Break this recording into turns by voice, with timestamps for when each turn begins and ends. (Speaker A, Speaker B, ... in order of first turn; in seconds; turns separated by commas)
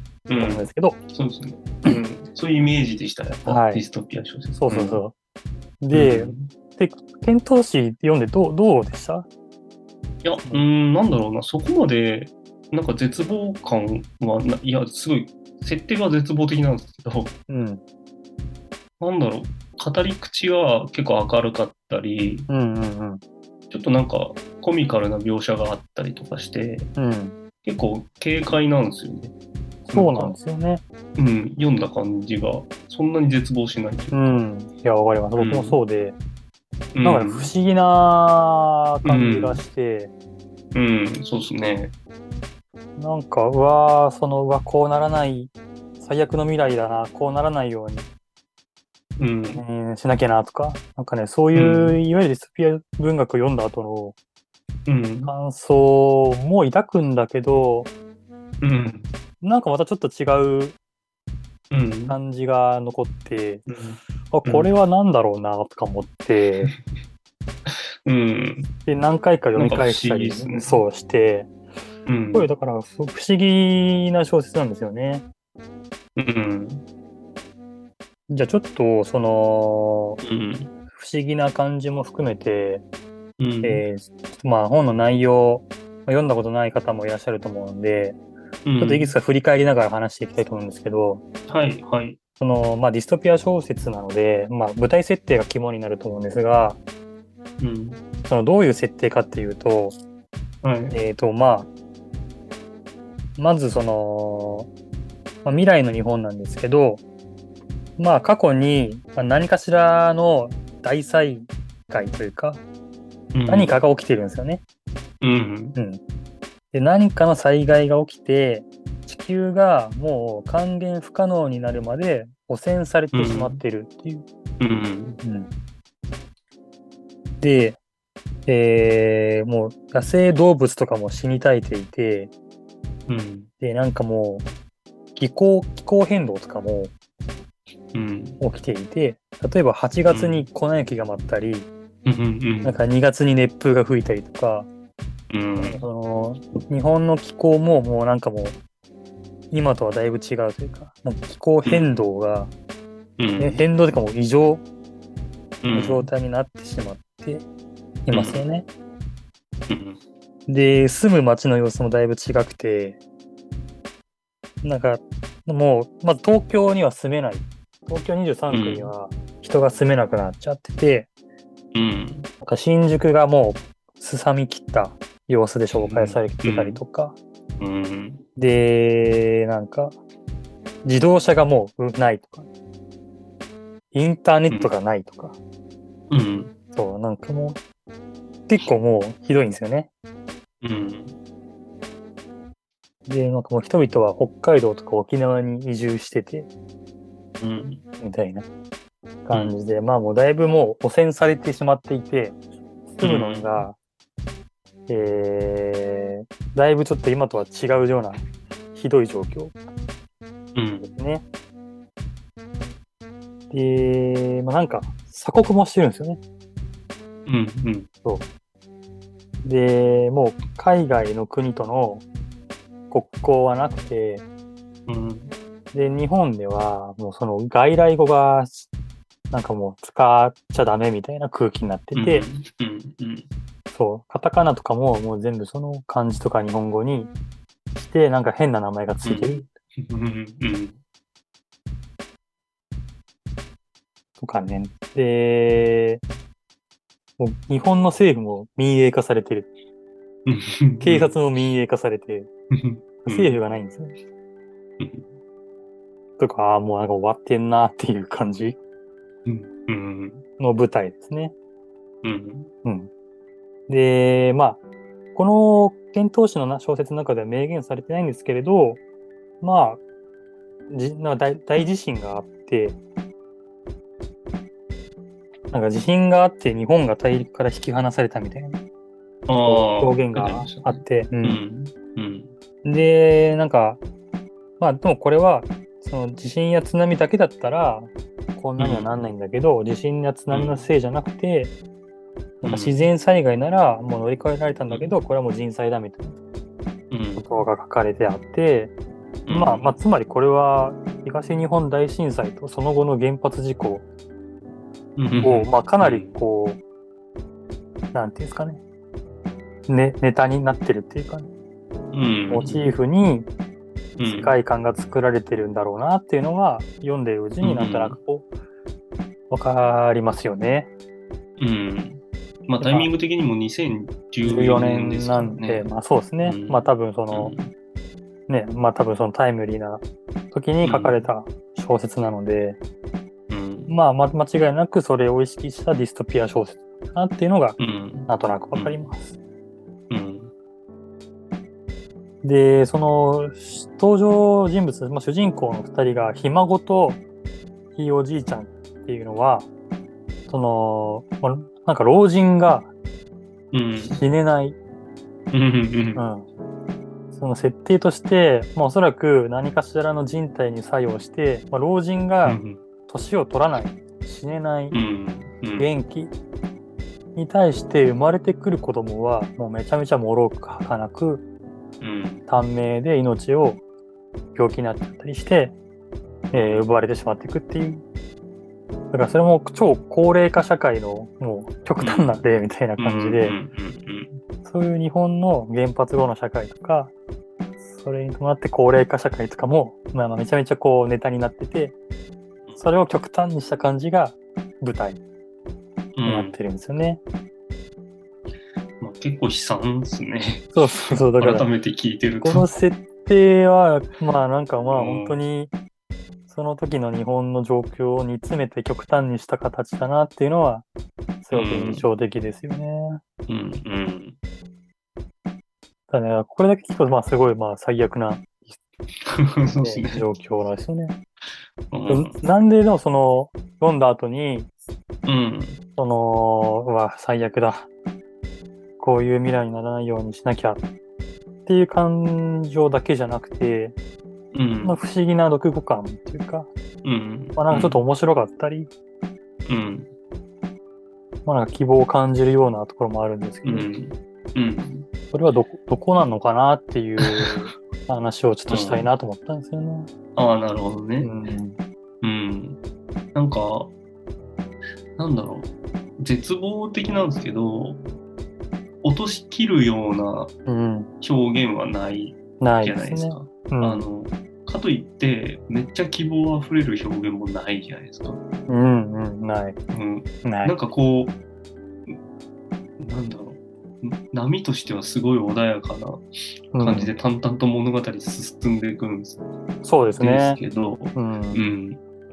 Speaker A: 0.3-5.0, Speaker B: 0.4-1.0, Speaker B: 3.5-3.8, Speaker B: 4.5-5.1, Speaker B: 5.8-9.3, Speaker A: 5.9-6.5, Speaker A: 10.2-17.3, Speaker B: 17.5-17.8, Speaker A: 19.0-22.5, Speaker B: 22.5-23.2, Speaker A: 23.7-26.9, Speaker B: 27.0-27.4, Speaker A: 27.6-29.3, Speaker B: 29.9-30.8, Speaker A: 29.9-30.4, Speaker A: 31.1-34.4, Speaker B: 34.1-36.2, Speaker A: 35.4-35.8, Speaker A: 36.9-37.5, Speaker B: 37.0-40.1, Speaker A: 39.0-39.6, Speaker A: 40.7-41.9, Speaker B: 43.0-48.0, Speaker A: 49.2-49.6, Speaker B: 49.5-54.1, Speaker A: 51.5-52.0, Speaker A: 54.9-55.3, Speaker B: 55.2-57.9, Speaker A: 58.6-59.1, Speaker B: 59.4-60.8, Speaker A: 61.7-62.2, Speaker B: 62.1-63.6, Speaker A: 63.7-64.7, Speaker B: 64.3-66.7, Speaker A: 67.7-68.7, Speaker B: 68.8-71.5, Speaker A: 69.5-70.8, Speaker A: 72.0-72.5, Speaker B: 72.3-75.2, Speaker A: 76.2-76.8, Speaker B: 78.3-80.2, Speaker A: 80.2-80.7, Speaker B: 80.9-82.8, Speaker A: 83.4-83.8, Speaker B: 83.6-88.2, Speaker A: 88.6-89.1, Speaker B: 88.8-91.2, Speaker A: 91.5-92.2, Speaker B: 92.4-96.8, Speaker A: 97.6-98.0, Speaker B: 98.3-100.0, Speaker A: 100.6-101.0, Speaker B: 100.9-101.7, Speaker B: 103.4-104.7, Speaker B: 105.4-107.0, Speaker B: 108.0-112.6, Speaker A: 113.3-113.8, Speaker B: 113.5-114.6, Speaker A: 115.2-115.8, Speaker B: 116.7-124.2, Speaker A: 123.1-123.6, Speaker A: 124.6-125.2, Speaker B: 125.2-125.5, Speaker B: 127.4-127.8, Speaker B: 128.5-132.3, Speaker A: 133.1-133.5, Speaker B: 133.6-134.4, Speaker B: 135.2-136.9, Speaker A: 137.9-138.4, Speaker B: 138.4-141.7, Speaker A: 140.1-140.5, Speaker A: 142.0-142.8, Speaker B: 142.6-144.7, Speaker A: 145.3-145.8, Speaker B: 145.6-148.6, Speaker B: 149.5-152.5, Speaker A: 153.2-153.6, Speaker B: 153.4-154.6, Speaker A: 155.6-156.1, Speaker B: 155.7-157.4, Speaker B: 158.1-158.7, Speaker A: 158.1-158.4, Speaker A: 159.7-160.0, Speaker B: 160.5-163.0, Speaker B: 164.6-171.1, Speaker A: 168.5-168.9, Speaker A: 171.7-172.3, Speaker B: 172.4-177.2, Speaker A: 175.7-176.8, Speaker A: 177.6-178.2, Speaker B: 178.3-180.0, Speaker B: 180.8-182.5, Speaker B: 183.9-185.4, Speaker A: 186.1-186.5, Speaker B: 186.7-187.6, Speaker B: 188.5-189.9, Speaker A: 190.6-191.2, Speaker B: 193.1-196.5, Speaker A: 197.4-197.8, Speaker B: 198.0-198.4, Speaker B: 199.2-202.4, Speaker B: 202.9-203.8, Speaker A: 203.0-203.6, Speaker B: 204.9-209.5, Speaker A: 210.5-210.9, Speaker B: 210.8-211.2, Speaker B: 213.5-216.2, Speaker A: 217.2-217.9, Speaker B: 219.4-222.0, Speaker B: 222.9-224.2, Speaker A: 224.9-225.3, Speaker B: 225.7-228.7, Speaker B: 229.3-232.2, Speaker A: 231.9-233.3, Speaker B: 233.7-237.1, Speaker B: 237.8-239.5, Speaker A: 239.0-240.8, Speaker B: 244.2-246.0, Speaker B: 247.2-249.5, Speaker A: 250.2-251.2, Speaker B: 250.8-252.3, Speaker A: 252.5-253.3, Speaker B: 253.0-253.9, Speaker A: 254.8-255.1, Speaker B: 256.2-258.6, Speaker A: 259.2-260.2, Speaker B: 260.4-261.3, Speaker A: 262.0-262.5, Speaker B: 262.6-262.9, Speaker B: 263.7-264.6, Speaker B: 265.1-268.8, Speaker B: 269.4-269.8, Speaker B: 270.7-272.8, Speaker B: 275.5-278.6, Speaker A: 279.3-282.3, Speaker B: 279.4-281.4, Speaker B: 282.6-283.8, Speaker B: 284.6-291.5, Speaker A: 288.6-288.9, Speaker A: 290.3-290.6, Speaker B: 292.4-296.2, Speaker A: 292.4-292.9, Speaker A: 296.9-297.2, Speaker B: 297.2-298.7, Speaker A: 299.2-299.7, Speaker B: 299.3-303.8, Speaker A: 304.9-306.1, Speaker B: 305.1-306.6, Speaker B: 307.9-308.6, Speaker B: 309.7-311.3, Speaker A: 311.9-312.7, Speaker B: 312.3-313.3, Speaker A: 314.0-314.3, Speaker B: 314.0-318.3, Speaker A: 317.4-318.0, Speaker B: 319.3-320.7, Speaker A: 321.4-325.7, Speaker B: 322.6-322.9, Speaker B: 324.2-327.3, Speaker A: 326.2-327.5, Speaker B: 328.3-332.6, Speaker A: 330.6-331.0, Speaker A: 333.3-333.7, Speaker B: 333.7-339.1, Speaker A: 337.6-338.8, Speaker A: 339.9-340.3, Speaker B: 342.2-347.0, Speaker B: 347.7-349.5, Speaker B: 350.3-352.7, Speaker A: 353.5-354.0, Speaker B: 353.8-354.6, Speaker A: 355.3-356.0, Speaker B: 355.9-356.3, Speaker B: 357.1-364.8, Speaker A: 362.2-362.6, Speaker A: 364.7-365.6, Speaker B: 365.6-366.1, Speaker B: 367.1-371.2, Speaker A: 371.8-372.2, Speaker B: 372.3-373.6, Speaker B: 374.3-375.5, Speaker B: 376.3-377.8, Speaker A: 376.3-376.6, Speaker B: 378.9-383.4, Speaker A: 381.8-382.2, Speaker A: 382.8-384.2, Speaker B: 384.4-386.9, Speaker B: 387.6-391.8, Speaker B: 392.6-395.0, Speaker A: 395.9-396.4, Speaker B: 396.1-397.0, Speaker A: 398.8-402.5, Speaker B: 400.5-401.5, Speaker B: 402.2-405.5, Speaker A: 404.7-405.2, Speaker B: 406.3-410.6, Speaker B: 411.2-413.0, Speaker A: 411.3-411.9, Speaker A: 413.3-414.1, Speaker B: 415.9-418.6, Speaker A: 419.1-420.0, Speaker B: 419.6-421.0, Speaker A: 421.7-422.2, Speaker B: 421.9-424.5, Speaker A: 425.0-425.6, Speaker B: 425.8-427.7, Speaker B: 428.8-430.6, Speaker B: 431.4-433.7, Speaker A: 434.3-434.8, Speaker B: 434.6-436.5, Speaker A: 436.8-437.8, Speaker B: 437.3-438.7, Speaker A: 439.4-439.9, Speaker B: 441.2-443.7, Speaker A: 443.4-444.9, Speaker B: 445.1-449.9, Speaker A: 447.0-447.5, Speaker A: 448.5-448.9, Speaker A: 450.1-451.1, Speaker B: 451.0-451.6, Speaker A: 452.0-452.6, Speaker A: 453.1-453.7, Speaker A: 454.9-457.8, Speaker A: 458.8-460.3, Speaker B: 460.4-460.9, Speaker A: 461.0-468.2, Speaker B: 462.4-463.9, Speaker B: 468.5-469.6, Speaker A: 469.7-471.2, Speaker B: 470.2-470.6, Speaker A: 472.8-479.2, Speaker B: 476.5-476.9, Speaker B: 479.6-480.4, Speaker A: 480.0-481.8, Speaker B: 480.9-481.5